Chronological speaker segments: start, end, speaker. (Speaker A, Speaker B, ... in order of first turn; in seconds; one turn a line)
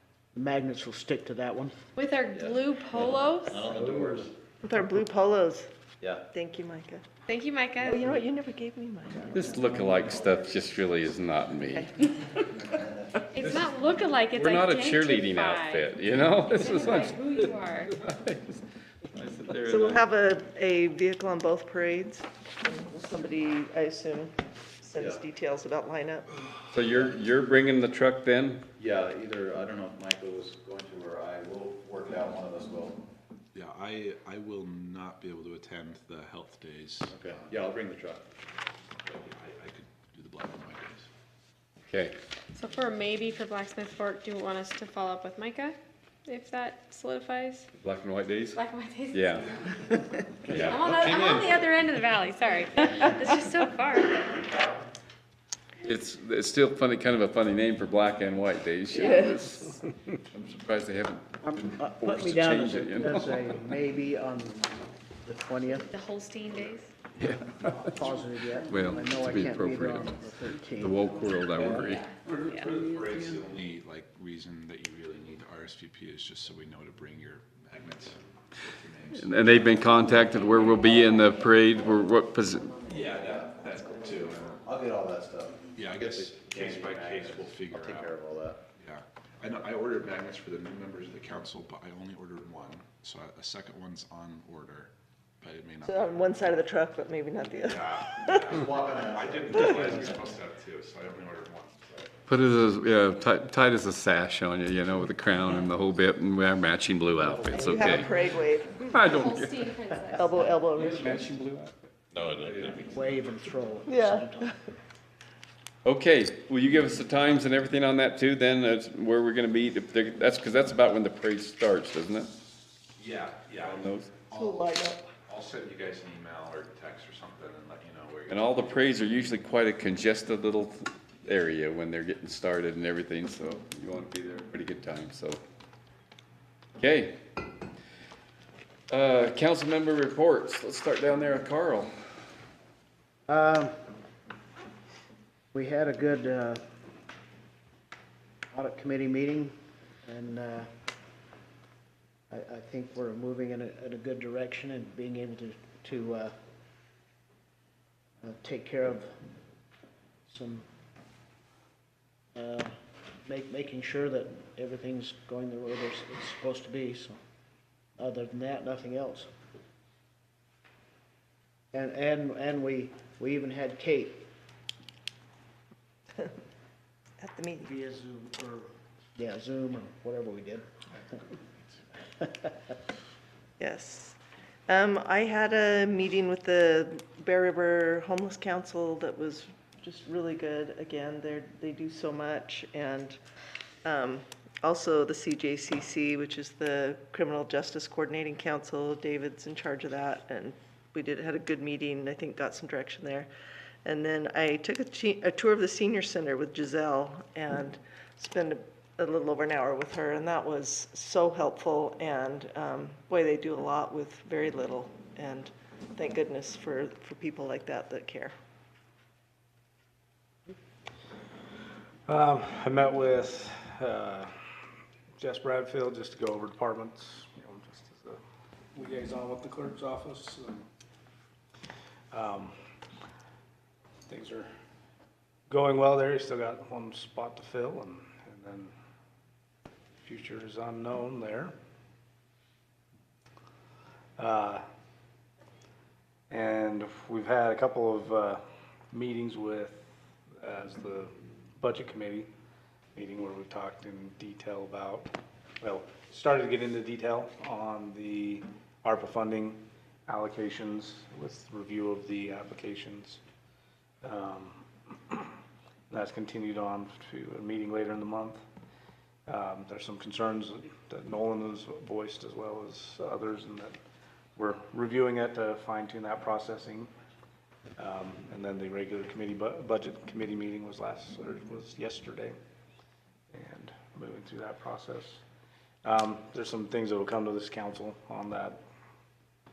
Speaker A: 0.3-1.8
Speaker B: 2.0-3.6
Speaker C: 2.3-4.3
Speaker A: 3.6-4.3
Speaker D: 4.6-5.7
Speaker C: 6.0-6.2
Speaker D: 6.3-7.0
Speaker B: 7.3-8.0
Speaker D: 7.8-9.5
Speaker E: 9.3-11.9
Speaker C: 9.9-10.6
Speaker D: 11.7-12.5
Speaker C: 12.6-13.3
Speaker B: 13.3-15.9
Speaker E: 14.3-17.4
Speaker B: 16.5-18.0
Speaker E: 17.9-20.1
Speaker D: 19.6-26.3
Speaker C: 24.9-25.2
Speaker E: 26.7-28.6
Speaker C: 28.8-33.0
Speaker F: 33.5-37.6
Speaker C: 37.1-38.2
Speaker F: 39.0-41.1
Speaker E: 41.9-42.1
Speaker B: 42.5-47.7
Speaker E: 47.8-48.6
Speaker B: 48.5-50.0
Speaker E: 49.1-49.5
Speaker E: 50.4-51.7
Speaker B: 50.5-54.5
Speaker E: 55.8-59.8
Speaker D: 59.0-59.3
Speaker E: 60.3-63.4
Speaker A: 61.4-65.9
Speaker B: 65.9-66.9
Speaker E: 67.2-67.9
Speaker A: 67.6-72.0
Speaker E: 68.7-72.1
Speaker B: 71.8-72.7
Speaker F: 72.2-80.2
Speaker A: 72.6-73.3
Speaker E: 79.1-82.8
Speaker F: 82.8-84.6
Speaker C: 83.2-83.5
Speaker C: 84.5-88.6
Speaker F: 85.7-88.2
Speaker F: 88.8-96.5
Speaker D: 95.8-98.5
Speaker F: 97.6-102.1
Speaker C: 98.5-100.3
Speaker E: 102.3-108.1
Speaker D: 107.5-109.0
Speaker A: 107.5-108.0
Speaker E: 108.8-109.7
Speaker B: 109.1-110.5
Speaker D: 110.2-111.3
Speaker A: 110.2-110.5
Speaker E: 110.8-112.9
Speaker C: 112.2-112.7
Speaker A: 112.7-114.6
Speaker D: 113.9-114.4
Speaker E: 115.8-122.3
Speaker F: 123.0-128.9
Speaker E: 123.7-124.1
Speaker D: 124.3-125.0
Speaker E: 128.3-135.4
Speaker E: 136.8-137.2
Speaker E: 138.9-141.9
Speaker A: 143.3-143.7
Speaker A: 145.5-146.6
Speaker A: 148.5-149.5
Speaker A: 150.1-150.7
Speaker A: 152.3-156.3
Speaker A: 158.2-159.2
Speaker A: 160.3-160.7
Speaker A: 162.3-162.7
Speaker A: 163.2-167.2
Speaker A: 168.0-169.3
Speaker A: 171.7-174.2
Speaker D: 177.2-177.7
Speaker A: 177.6-180.9
Speaker A: 182.2-182.5
Speaker D: 183.6-184.2
Speaker D: 184.7-193.2
Speaker D: 193.8-203.3
Speaker D: 203.8-218.3
Speaker G: 222.1-224.3
Speaker G: 225.2-228.2
Speaker G: 228.7-230.7
Speaker G: 232.1-232.5
Speaker G: 234.1-234.5
Speaker G: 235.5-238.7
Speaker G: 240.0-241.5
Speaker G: 244.2-244.6
Speaker G: 246.3-252.3
Speaker G: 252.9-263.2
Speaker G: 264.0-265.3
Speaker G: 265.9-268.4
Speaker G: 269.3-273.8
Speaker G: 274.4-276.9
Speaker G: 277.8-282.3
Speaker G: 283.3-285.2
Speaker G: 285.8-288.6